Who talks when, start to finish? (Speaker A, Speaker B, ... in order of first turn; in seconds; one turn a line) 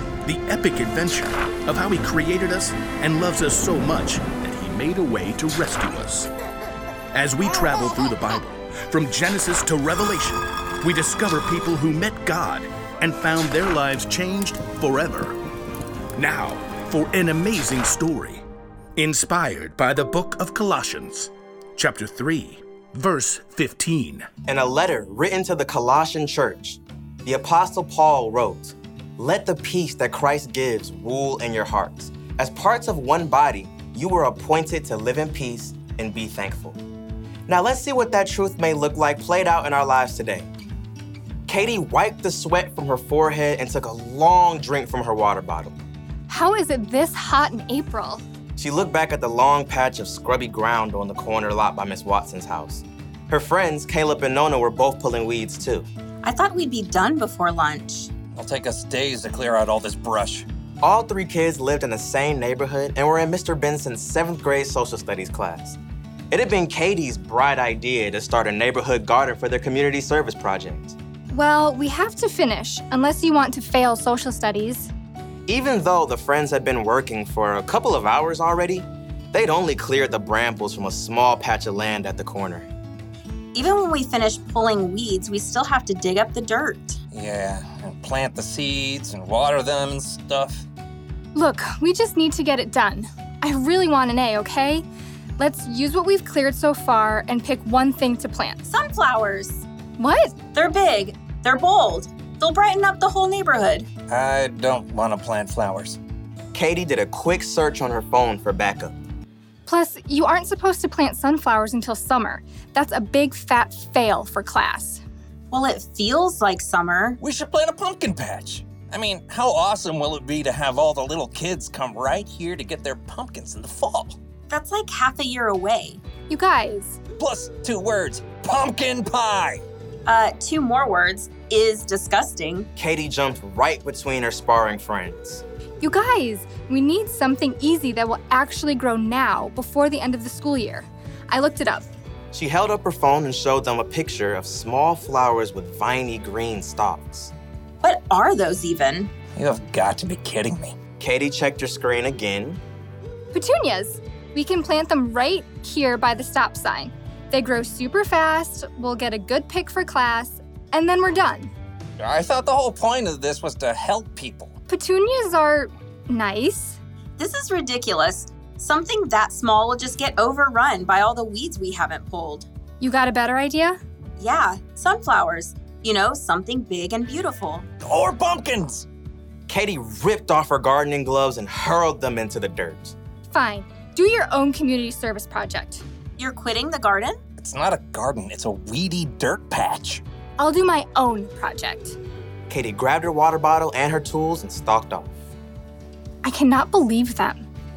Speaker A: 0.2-6.3
Speaker A: 7.1-15.3
Speaker A: 16.1-18.4
Speaker A: 19.0-24.3
Speaker B: 24.5-36.8
Speaker B: 37.5-40.5
Speaker B: 41.5-45.8
Speaker C: 46.3-48.2
Speaker B: 48.6-55.9
Speaker D: 56.2-58.1
Speaker E: 58.3-60.5
Speaker B: 60.8-65.8
Speaker B: 66.3-71.0
Speaker C: 71.3-74.9
Speaker B: 75.5-82.7
Speaker D: 83.5-87.0
Speaker E: 87.1-90.7
Speaker C: 91.3-94.8
Speaker C: 95.4-98.6
Speaker D: 98.7-99.7
Speaker C: 100.0-100.3
Speaker D: 100.5-103.9
Speaker E: 104.1-106.0
Speaker B: 106.5-109.0
Speaker C: 109.7-115.0
Speaker D: 115.5-117.2
Speaker E: 117.2-124.2
Speaker D: 124.5-126.0
Speaker C: 126.3-127.0
Speaker E: 127.2-129.6
Speaker D: 130.1-132.7
Speaker B: 132.8-135.4
Speaker C: 135.8-141.9
Speaker B: 142.3-147.3
Speaker D: 147.8-149.1
Speaker E: 149.3-150.7
Speaker B: 151.0-152.6
Speaker C: 153.3-161.5
Speaker E: 162.0-164.6
Speaker C: 164.7-166.8
Speaker D: 167.2-172.5
Speaker C: 172.8-173.8
Speaker D: 174.2-177.6
Speaker E: 177.8-178.9
Speaker B: 179.5-182.9
Speaker C: 183.3-185.8
Speaker D: 186.2-187.2
Speaker E: 187.4-190.0
Speaker C: 190.4-192.0
Speaker B: 192.5-195.1
Speaker C: 196.2-197.4